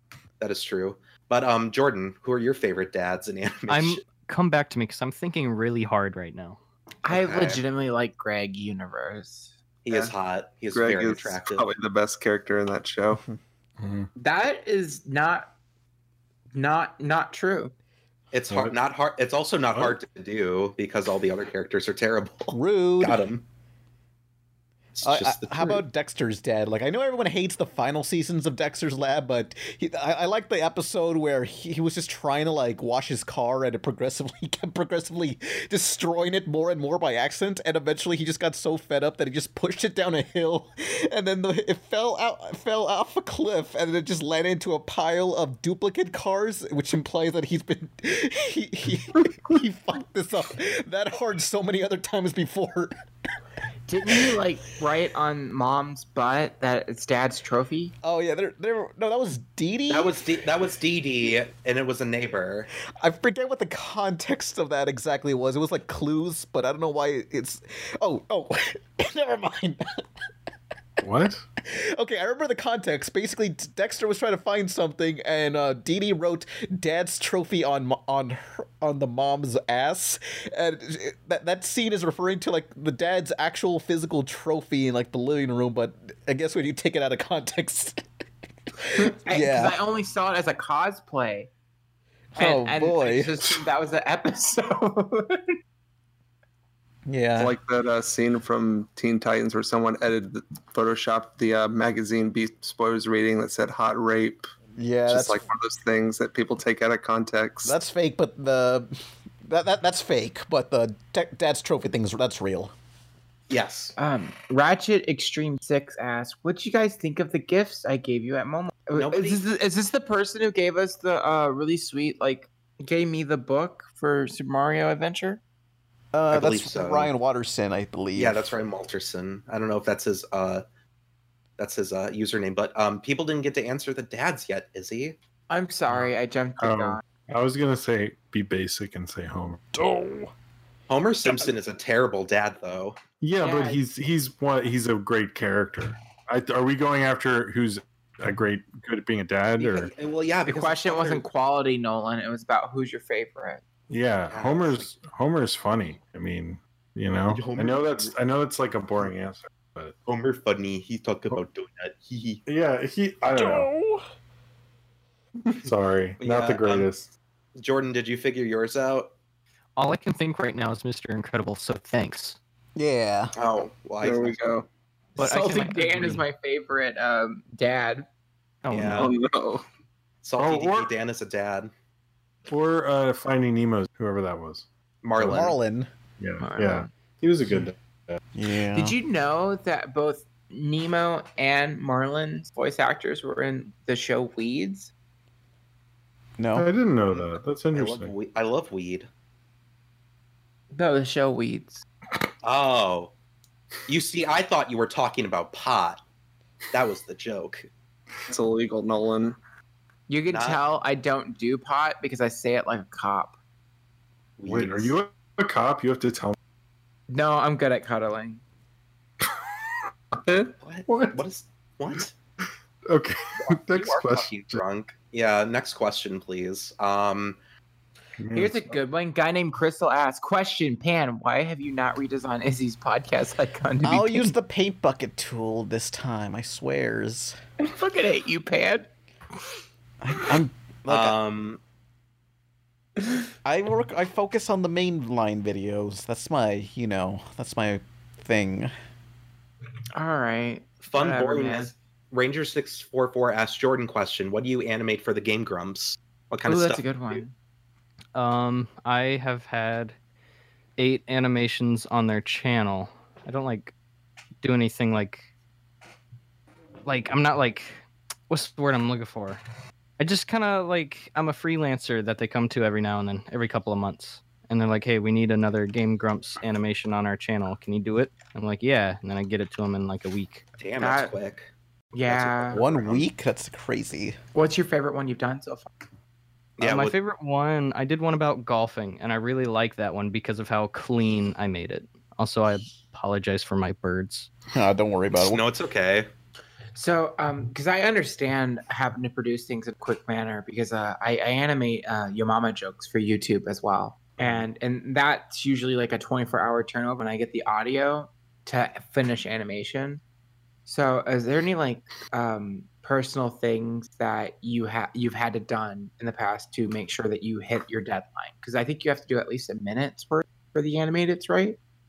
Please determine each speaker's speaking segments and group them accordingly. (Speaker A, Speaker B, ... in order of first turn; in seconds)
Speaker A: 0.4-4.0, 7.1-7.6, 9.8-11.7, 18.3-23.4, 25.0-25.8, 59.9-62.7, 113.5-114.0, 118.9-119.4, 126.3-127.1, 128.2-130.6, 131.6-135.2, 140.9-143.0, 149.6-151.2, 154.3-154.9, 157.3-158.2, 160.1-162.4, 166.2-166.9, 167.6-169.1, 173.4-174.4, 178.7-179.1, 180.2-181.7, 185.0-185.6, 197.1-199.1, 202.4-203.1, 203.9-206.0, 206.7-207.7, 210.3-210.6, 214.4-214.9, 220.6-222.1, 223.4-227.4, 240.9-241.6, 250.8-257.2, 280.6-281.5, 282.1-283.1, 286.6-286.9, 295.1-296.1
Speaker B: 3.7-6.6, 169.8-172.4, 175.2-176.2, 178.6-179.1, 258.1-260.0, 260.8-263.7, 264.4-265.3, 266.9-269.4, 270.0-280.4, 286.6-294.3
Speaker C: 7.0-9.6, 14.2-15.5, 16.5-17.7, 53.9-57.9, 89.0-91.5, 92.4-95.6, 114.0-125.4, 135.5-137.0, 143.4-143.8, 150.5-153.6, 175.2-178.1, 186.4-186.9, 188.7-194.9, 200.7-201.8, 210.1-213.3, 217.1-218.4, 228.3-234.3, 237.6-238.9, 250.0-251.8, 256.4-257.3, 280.8-281.1, 281.9-282.6, 284.3-285.7, 296.7-310.0, 310.7-321.6
Speaker D: 10.7-13.2, 97.4-104.5, 105.1-107.8, 174.0-174.7, 178.9-179.6, 208.3-209.4, 220.2-220.5
Speaker E: 13.8-14.1, 18.5-18.8, 71.0-71.4, 135.9-139.7, 143.2-149.9, 153.9-159.9, 162.5-163.7, 165.6-167.1, 180.4-180.9, 182.5-184.7, 185.2-185.5, 186.2-188.2, 196.6-198.1, 214.5-216.4, 220.9-221.2, 222.9-224.6, 228.2-228.8, 304.2-304.5
Speaker F: 22.5-23.2, 25.1-52.9, 58.0-60.3, 63.0-70.0, 71.6-88.0, 88.8-89.8, 92.3-93.6, 97.1-97.6, 104.8-105.5, 107.7-108.9, 109.5-112.7, 126.1-128.6, 139.8-140.3, 163.3-164.0, 172.8-173.3, 185.2-185.9, 188.3-189.0, 196.4-196.7, 233.8-237.4, 240.0-241.2, 243.4-248.7, 282.5-284.2, 294.5-295.4